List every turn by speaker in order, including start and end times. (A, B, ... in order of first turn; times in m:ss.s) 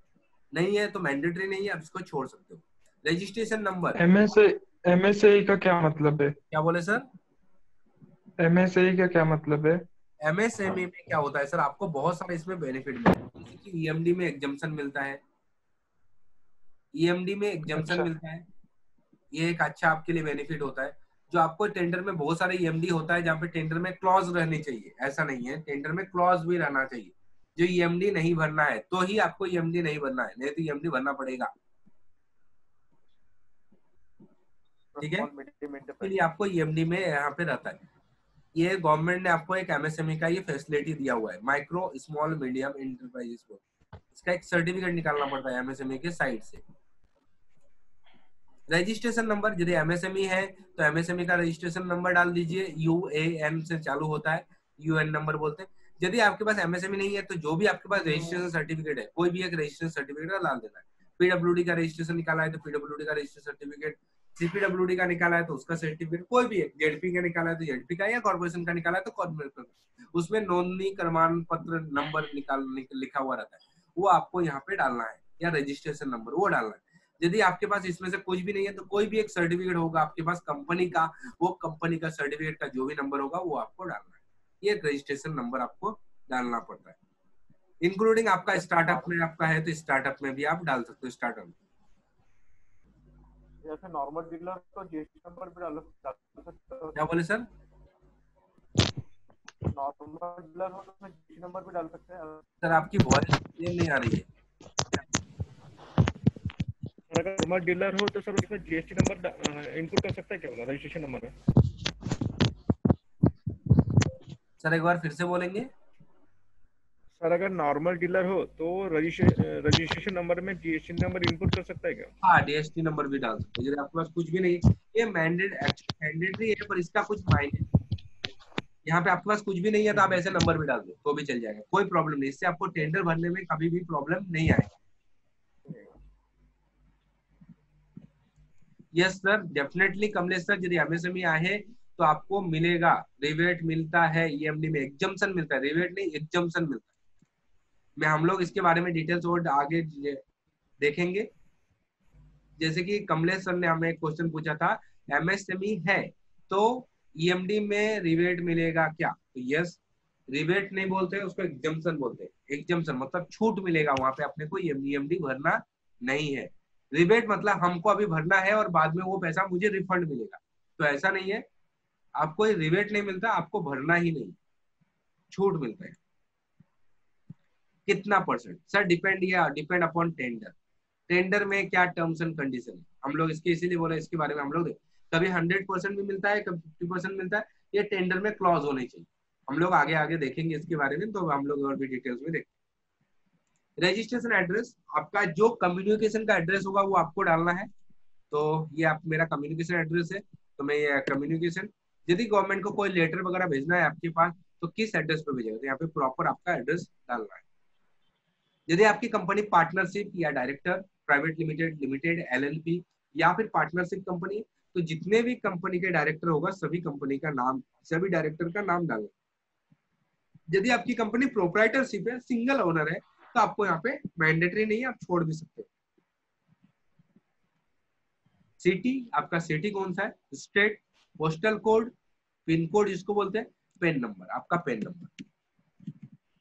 0:00.5-0:04.0 A
0:04.0-0:06.4 B
0:06.5-0:07.1 A
0:08.4-0:09.8 B
0:10.2-0:15.2 A
0:16.9-0:18.4 A
0:17.7-0:18.1 B
0:19.3-0:31.5 A
0:34.9-0:36.2 C
0:35.0-0:35.3 A
0:36.0-0:37.8 A
0:38.6-0:43.6 A
0:44.1-0:46.6 A
0:48.7-1:27.0 A
1:27.8-1:31.6 A
1:28.6-1:29.1 C
1:33.6-1:37.0 C
1:37.0-1:37.5 A
1:39.7-1:42.4 C
1:42.6-1:44.3 A
1:47.1-1:51.3 C
1:54.6-1:55.7 A
1:57.2-2:02.1 C
2:02.2-2:07.7 A
2:08.8-2:14.7 A
2:18.9-2:26.9 A
2:28.0-2:30.2 A
2:30.8-2:31.3 A
2:32.6-2:51.5 A
2:52.2-2:54.4 A
2:55.3-2:56.0 A
2:57.9-3:00.5 A
3:01.1-3:12.5 A
3:13.8-3:17.7 A
3:18.3-3:27.4 A
3:28.7-3:39.1 A
3:40.5-3:45.7 A
3:48.6-3:51.9 A
3:52.5-3:55.1 A